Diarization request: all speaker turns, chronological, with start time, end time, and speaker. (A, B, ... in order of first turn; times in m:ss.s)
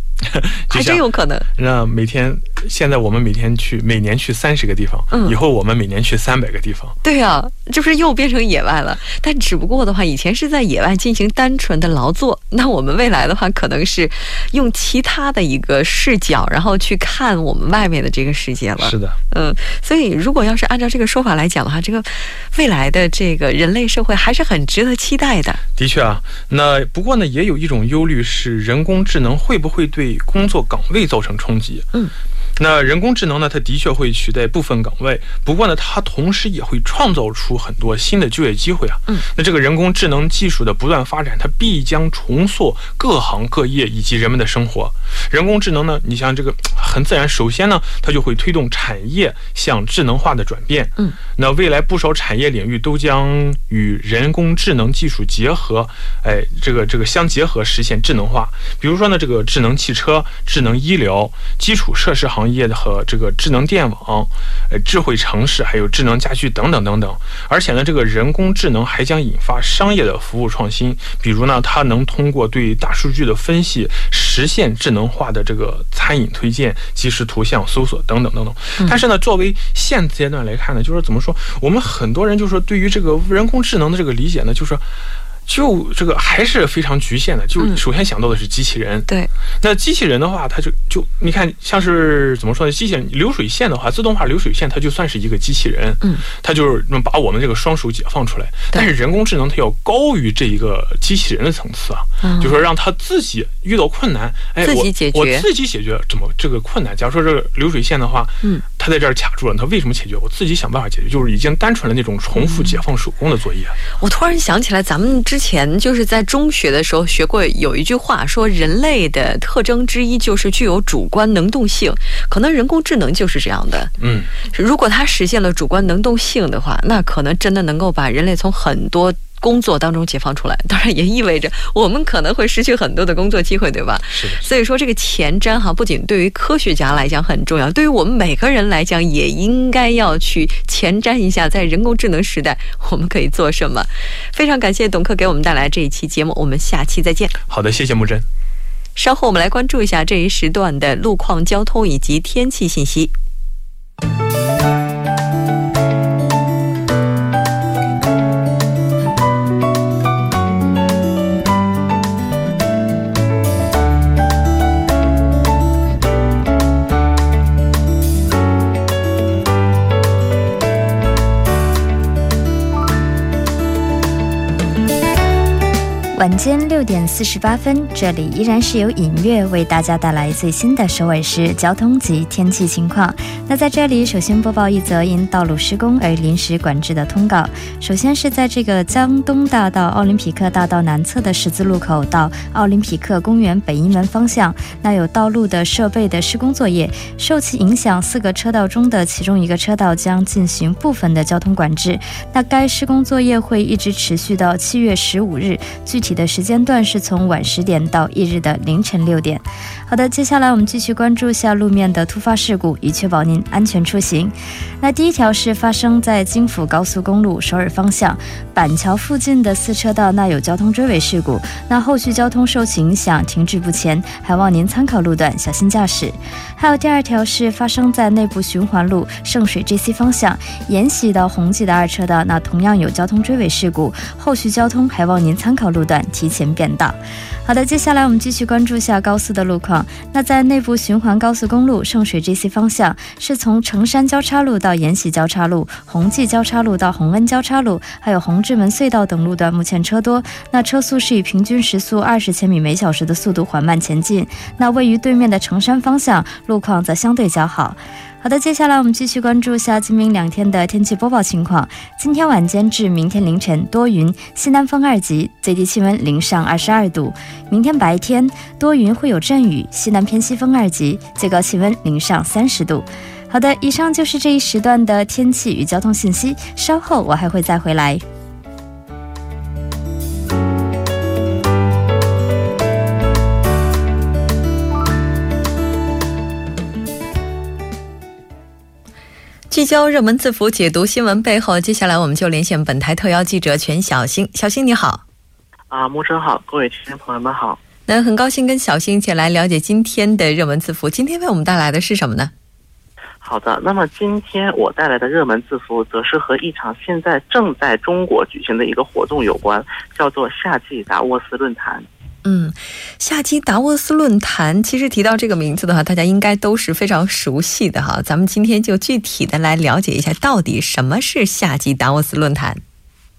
0:00.3-0:01.0 A
0:00.7-0:01.5 B
0:01.6-0:07.0 A
0:05.1-0:05.4 B
0:07.0-0:25.6 B
0:18.8-0:19.2 A
0:25.8-0:31.9 A
0:32.6-1:24.8 A
1:25.5-1:29.1 A
1:29.6-1:53.8 A
1:42.2-1:42.6 B
1:44.6-1:45.5 B
1:52.4-1:52.8 B
1:54.0-2:03.9 B
2:04.0-2:04.3 A
2:04.5-2:27.4 B
2:14.1-2:14.4 A
2:27.5-2:28.2 A
2:29.0-2:33.1 B
2:56.2-4:38.0 C
4:49.5-4:55.0 B
4:55.7-4:57.6 D
4:57.9-5:02.3 B
5:03.2-5:11.9 D
5:12.2-5:22.6 B